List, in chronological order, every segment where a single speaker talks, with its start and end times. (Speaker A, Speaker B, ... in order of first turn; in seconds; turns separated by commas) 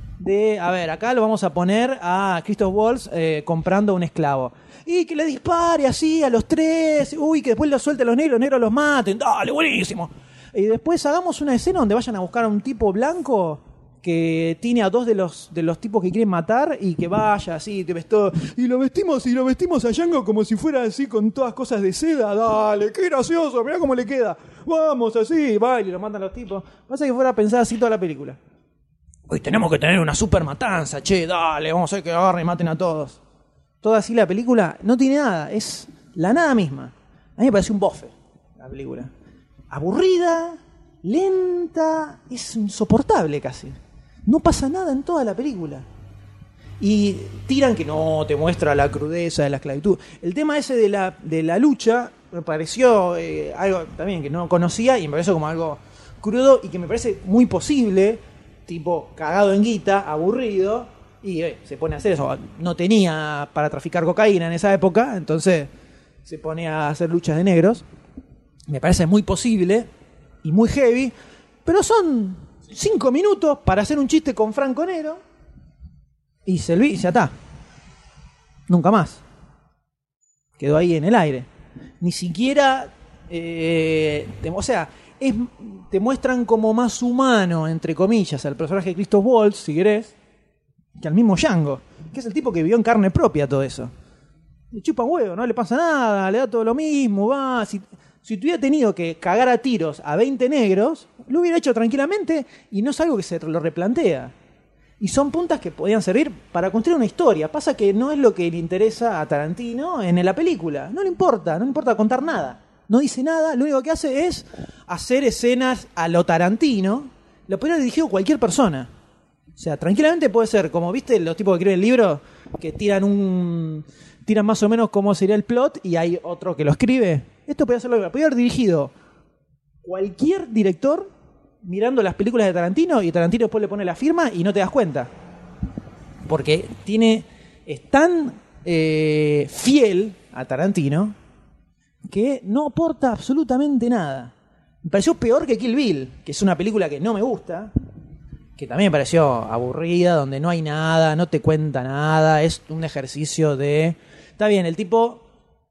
Speaker A: 0.2-28.4, Speaker A: 29.3-33.2, Speaker A: 33.8-39.1, Speaker A: 39.7-45.8, Speaker A: 46.8-65.7, Speaker A: 66.2-67.8, Speaker A: 68.7-69.9, Speaker A: 70.4-71.1, Speaker A: 71.7-75.2, Speaker A: 76.5-77.3, Speaker A: 78.7-79.2, Speaker A: 80.6-81.5, Speaker A: 82.0-90.1, Speaker A: 91.0-93.9, Speaker A: 94.7-104.3, Speaker A: 105.0-118.9, Speaker A: 119.6-128.9, Speaker A: 129.8-131.1, Speaker A: 131.6-135.1, Speaker A: 136.2-141.1, Speaker A: 142.1-144.3, Speaker A: 144.8-147.7, Speaker A: 148.6-155.2